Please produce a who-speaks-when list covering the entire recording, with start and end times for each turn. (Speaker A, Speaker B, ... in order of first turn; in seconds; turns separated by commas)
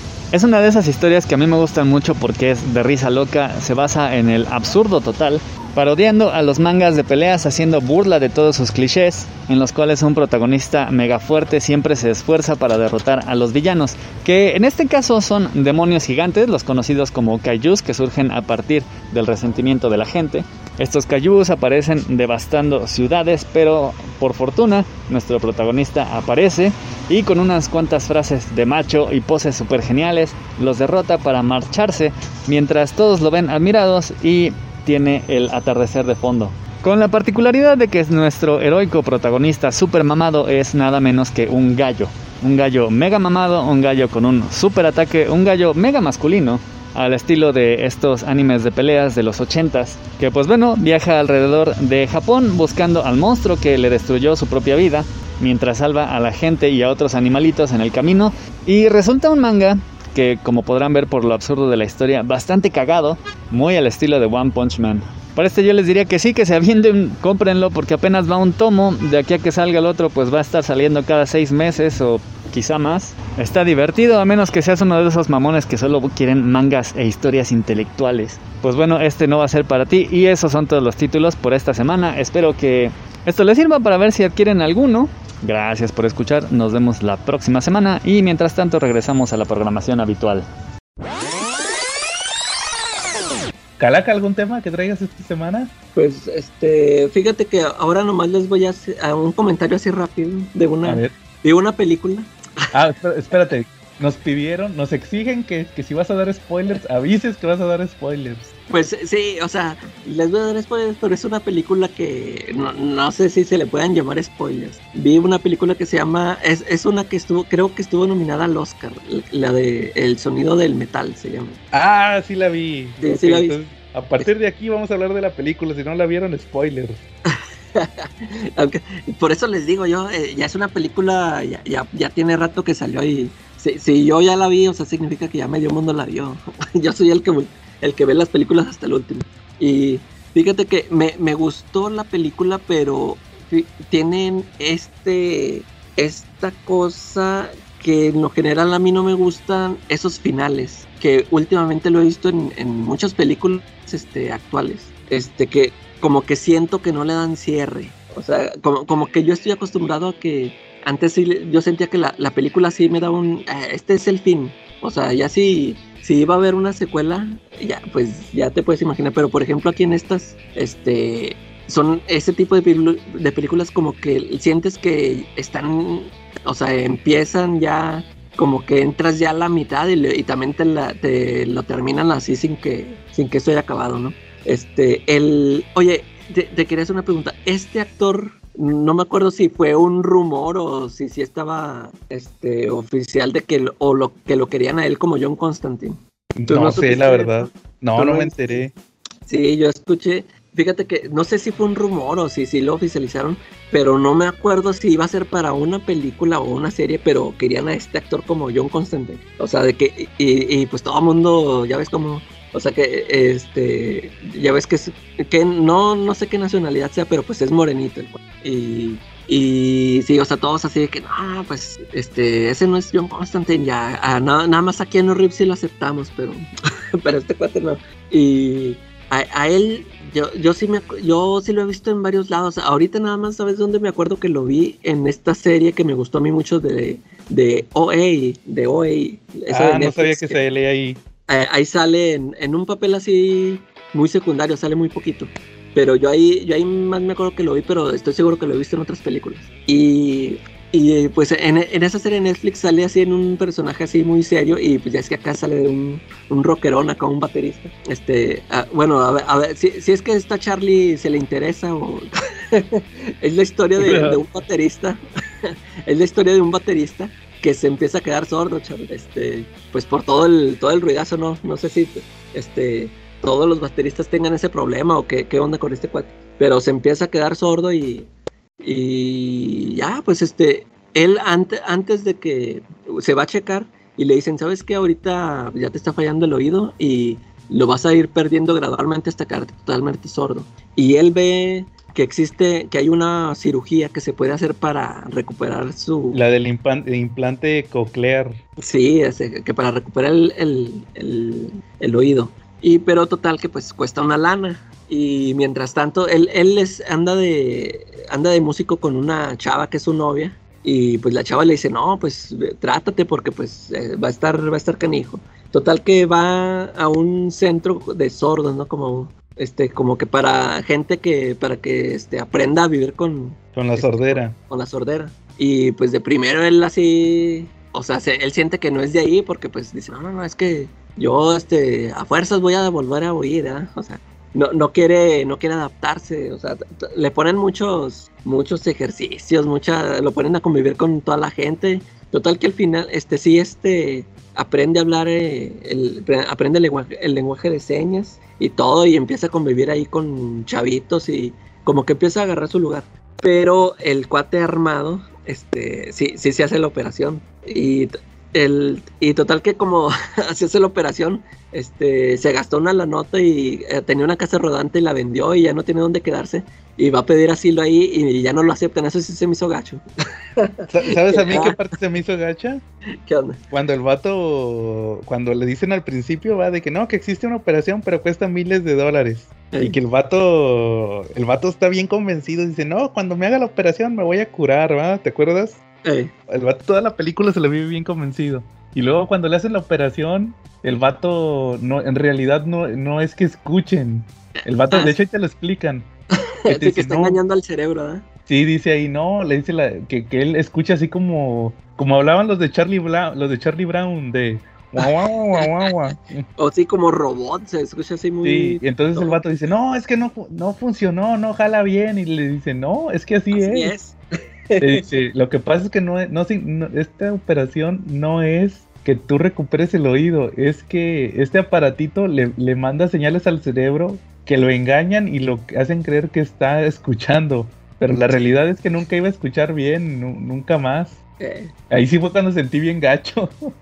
Speaker A: 0.3-90.4, Speaker B: 93.8-95.7, Speaker C: 95.9-102.7, Speaker B: 100.8-101.1, Speaker B: 102.7-108.5, Speaker C: 108.7-121.6, Speaker B: 121.7-127.0, Speaker C: 123.0-123.6, Speaker C: 127.3-198.4, Speaker B: 196.4-198.7, Speaker C: 199.2-240.4, Speaker B: 239.5-241.0, Speaker C: 241.3-278.1, Speaker B: 263.8-264.2, Speaker C: 278.6-296.2, Speaker B: 296.1-298.4, Speaker C: 298.6-369.8, Speaker B: 323.6-324.4, Speaker C: 370.4-371.6, Speaker B: 370.7-372.6, Speaker C: 373.0-373.4, Speaker B: 373.5-385.6, Speaker C: 379.5-379.8, Speaker C: 385.8-386.1, Speaker B: 386.3-395.9, Speaker C: 394.4-394.9, Speaker C: 396.4-398.1, Speaker B: 396.5-397.2, Speaker B: 398.3-406.2, Speaker C: 404.8-405.7, Speaker C: 406.4-409.2, Speaker B: 408.2-413.7, Speaker C: 413.3-414.0, Speaker C: 414.5-414.8, Speaker B: 414.6-431.0, Speaker C: 431.2-431.5, Speaker B: 431.7-433.5